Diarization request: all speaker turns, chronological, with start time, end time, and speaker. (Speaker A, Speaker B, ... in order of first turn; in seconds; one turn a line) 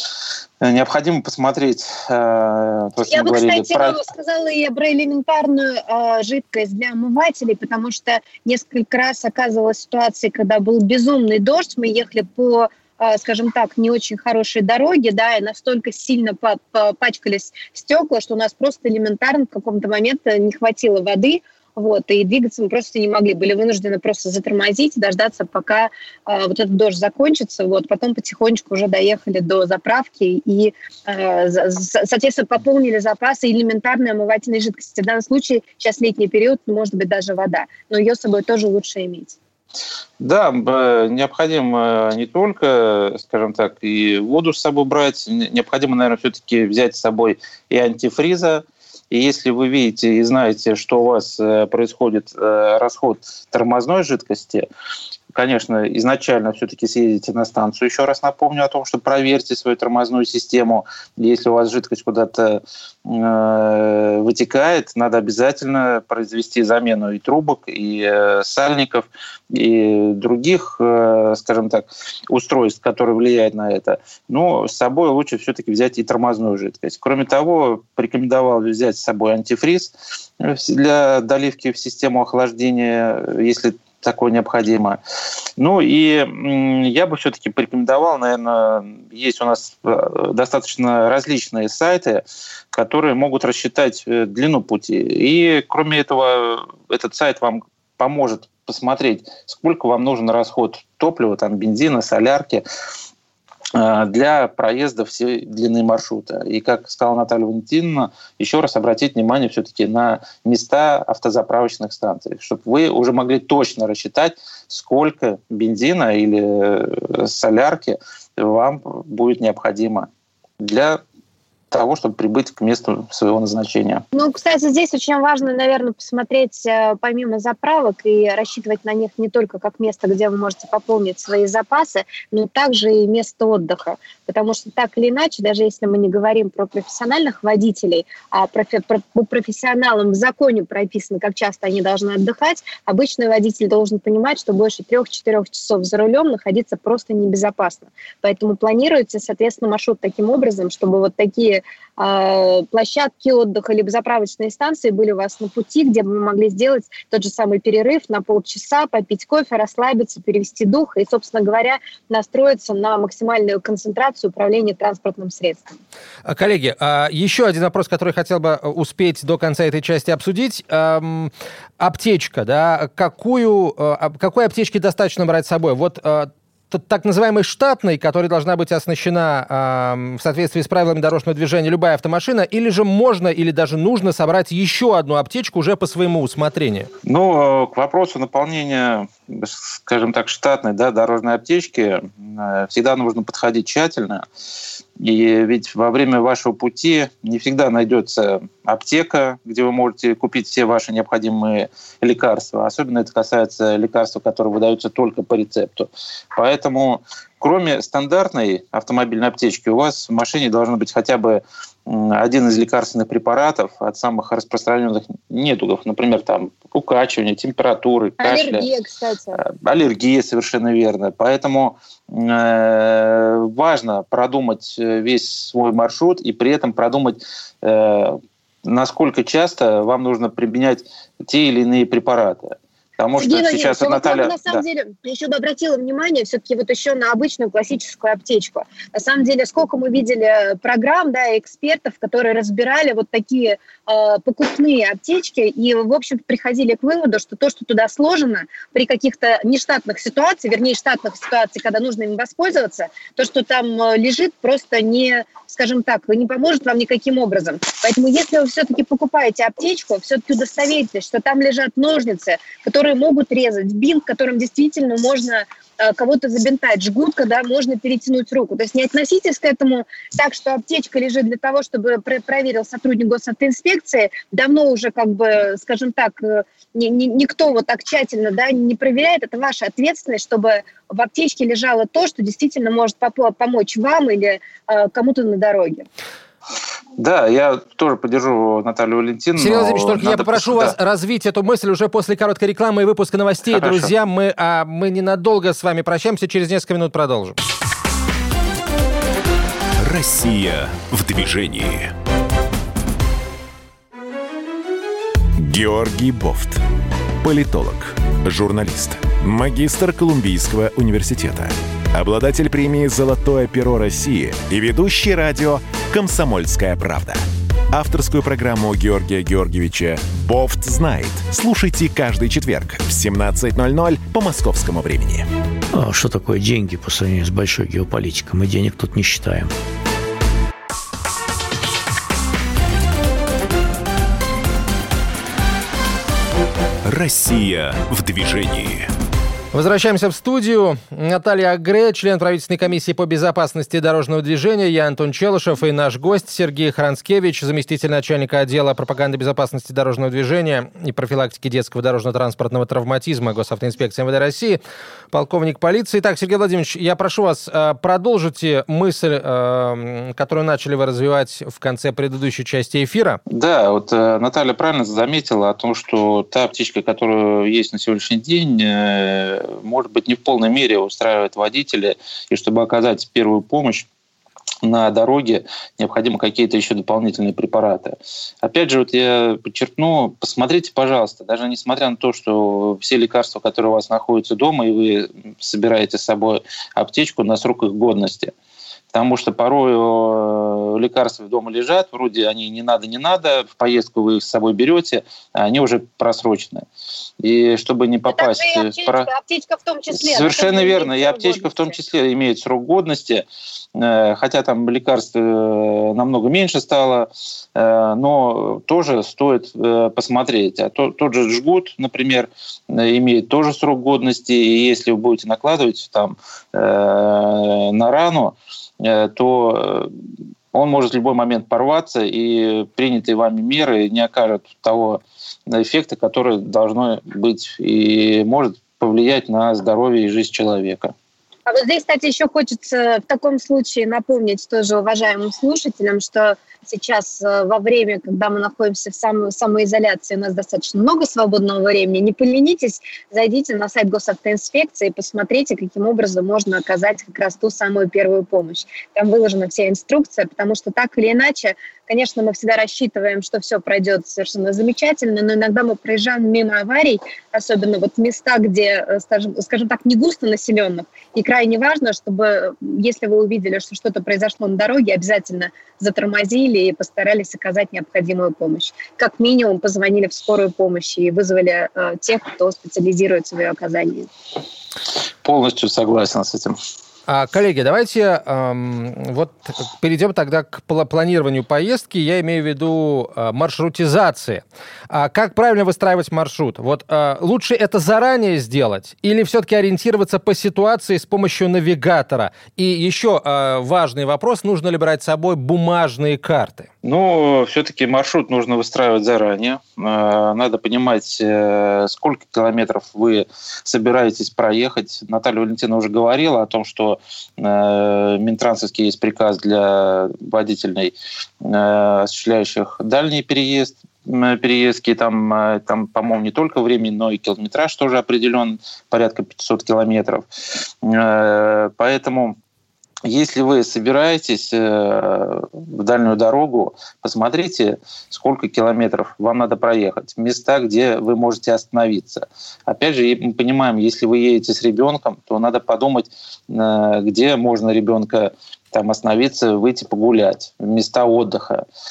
Speaker A: 0.6-4.0
Speaker B: 3.1-39.4
Speaker A: 40.2-54.6
Speaker A: 55.3-85.0
Speaker A: 85.6-102.6
Speaker A: 103.7-121.0
Speaker A: 121.7-124.0
Speaker B: 124.1-165.6
Speaker C: 166.2-186.9
Speaker A: 187.0-194.2
Speaker A: 195.0-218.7
Speaker B: 218.2-219.4
Speaker A: 219.3-234.6
Speaker B: 233.2-285.9
Speaker A: 287.0-290.8
Speaker C: 289.4-297.4
Speaker A: 293.5-293.9
Speaker D: 299.8-301.9
Speaker D: 305.4-306.6
Speaker D: 307.2-325.3
Speaker E: 325.7-329.5
Speaker D: 336.8-338.9
Speaker C: 339.5-354.6
Speaker C: 355.1-363.2
Speaker A: 363.3-373.9
Speaker A: 374.6-388.3
Speaker A: 388.9-396.6
Speaker A: 397.2-399.1
Speaker B: 398.1-401.8
Speaker A: 399.9-419.9
Speaker A: 420.5-430.9
Speaker B: 431.4-474.1
Speaker A: 475.2-476.6
Speaker C: 477.1-496.7
Speaker A: 496.8-522.4
Speaker A: 523.0-541.6